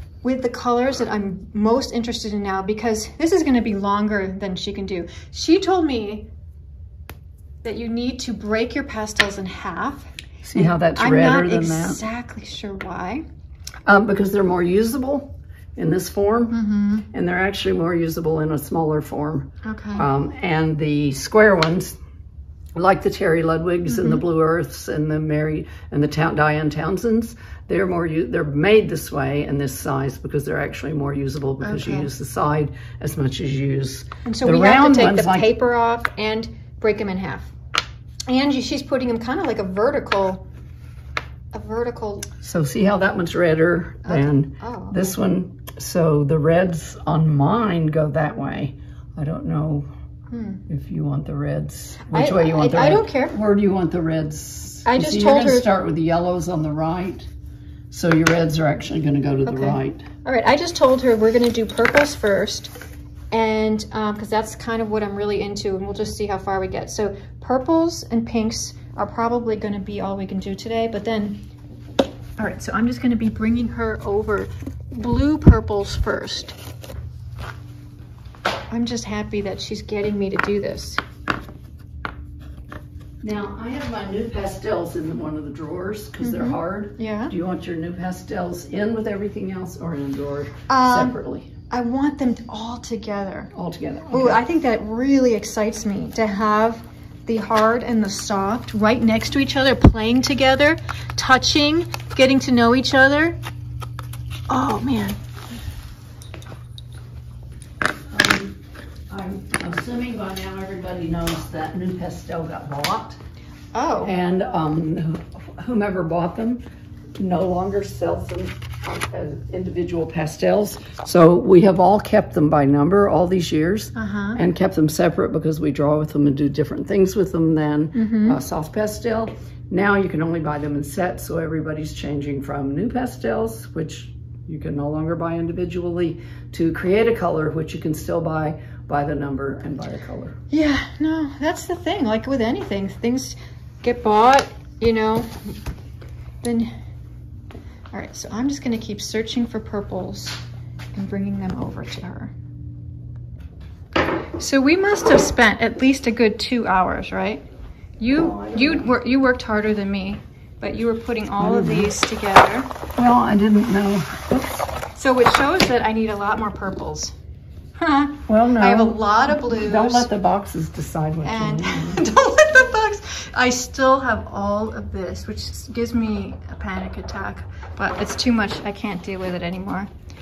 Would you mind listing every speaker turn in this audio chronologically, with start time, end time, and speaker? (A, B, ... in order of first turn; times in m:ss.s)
0:00.2-0:06.3 A
0:07.6-0:13.2 A
0:10.4-0:12.0 B
0:13.8-0:16.6 B
0:16.5-0:17.1 A
0:17.1-0:22.0 B
0:19.6-0:20.1 A
0:22.8-0:35.5 B
0:23.9-0:24.2 A
0:31.6-0:32.1 A
0:34.2-0:37.5 A
0:38.3-0:40.4 A
0:41.5-0:42.3 A
0:42.4-0:49.9 B
0:44.0-0:45.0 A
0:50.3-0:50.6 A
0:50.7-0:57.3 B
0:52.1-0:53.4 A
0:54.8-0:55.7 A
0:57.9-1:00.1 B
0:59.4-1:02.7 A
1:03.3-1:11.4 A
1:12.4-1:16.6 A
1:18.7-1:21.0 A
1:23.2-1:31.5 B
1:26.2-1:27.3 A
1:30.7-1:31.2 A
1:31.7-1:33.5 A
1:33.5-1:34.4 B
1:34.1-1:43.4 A
1:44.5-1:45.2 A
1:48.1-1:53.2 B
1:53.7-1:54.1 A
1:54.0-1:56.6 B
1:57.2-2:20.4 B
2:04.0-2:04.4 A
2:08.0-2:08.4 A
2:20.5-2:25.5 A
2:26.4-2:26.8 A
2:27.9-2:30.4 A
2:30.9-2:32.3 A
2:34.4-2:37.5 A
2:38.0-2:42.7 A
2:38.1-2:38.9 B
2:41.4-2:41.9 B
2:43.0-2:44.7 B
2:44.9-2:47.1 A
2:47.8-2:50.1 A
2:48.3-2:52.0 B
2:51.2-2:59.9 A